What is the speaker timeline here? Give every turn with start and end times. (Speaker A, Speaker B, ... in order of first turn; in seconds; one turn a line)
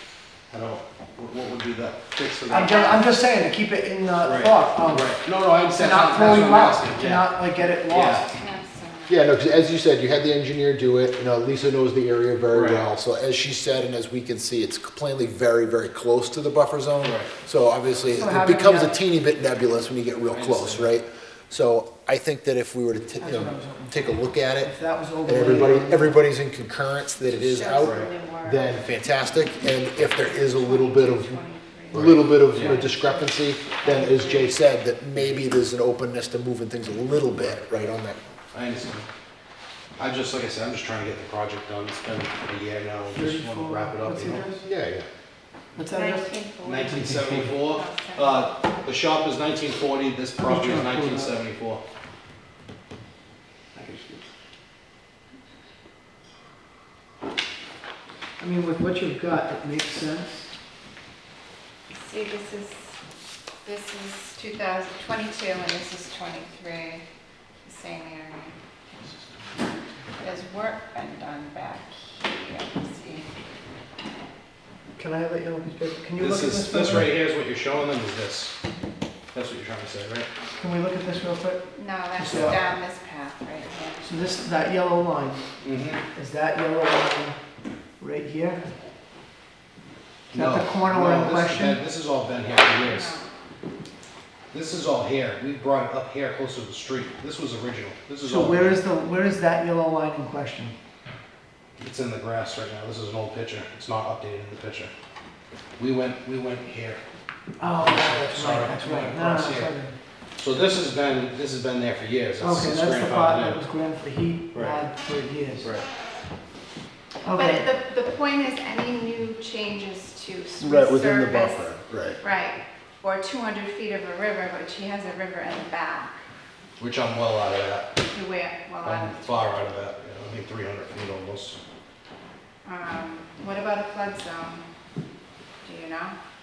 Speaker A: 0.5-3.0
Speaker B: 2.5-5.1
Speaker C: 2.6-3.1
Speaker A: 4.2-7.3
Speaker B: 5.7-8.3
Speaker A: 7.9-8.3
Speaker C: 8.3-9.3
Speaker D: 9.1-24.7
Speaker A: 12.5-12.9
Speaker A: 17.0-17.3
Speaker B: 18.1-19.0
Speaker A: 20.3-20.9
Speaker B: 23.2-26.2
Speaker D: 25.2-31.4
Speaker C: 27.3-28.8
Speaker A: 27.8-28.1
Speaker C: 30.0-34.6
Speaker D: 31.9-38.2
Speaker A: 31.9-32.9
Speaker A: 35.2-35.5
Speaker A: 38.5-39.1
Speaker A: 40.0-44.7
Speaker B: 43.1-44.6
Speaker D: 44.6-45.1
Speaker B: 45.8-46.3
Speaker C: 45.9-47.0
Speaker A: 46.6-51.8
Speaker B: 46.9-47.6
Speaker C: 47.7-48.8
Speaker B: 50.4-51.3
Speaker B: 53.8-54.2
Speaker B: 58.4-60.5
Speaker C: 62.0-63.0
Speaker C: 63.6-67.0
Speaker C: 67.6-68.5
Speaker C: 70.2-73.3
Speaker B: 75.0-77.1
Speaker A: 76.2-78.5
Speaker A: 79.3-80.3
Speaker B: 80.6-81.7
Speaker C: 81.7-84.5
Speaker B: 82.2-82.6
Speaker B: 84.0-85.4
Speaker A: 85.6-86.0
Speaker B: 86.1-87.4
Speaker B: 88.0-88.6
Speaker B: 90.3-91.8
Speaker A: 90.3-93.2
Speaker C: 92.8-93.3
Speaker A: 94.5-98.8
Speaker B: 98.2-100.8
Speaker A: 101.8-104.9
Speaker A: 105.8-107.0
Speaker B: 107.6-110.0
Speaker A: 107.7-109.7
Speaker A: 110.4-113.6
Speaker B: 112.4-115.7
Speaker A: 114.5-114.8
Speaker A: 115.6-115.8
Speaker B: 117.2-117.7
Speaker C: 117.3-126.2
Speaker D: 120.6-122.2
Speaker A: 126.8-128.0
Speaker C: 128.1-129.7
Speaker A: 128.8-131.6
Speaker C: 132.7-134.7
Speaker C: 135.6-136.2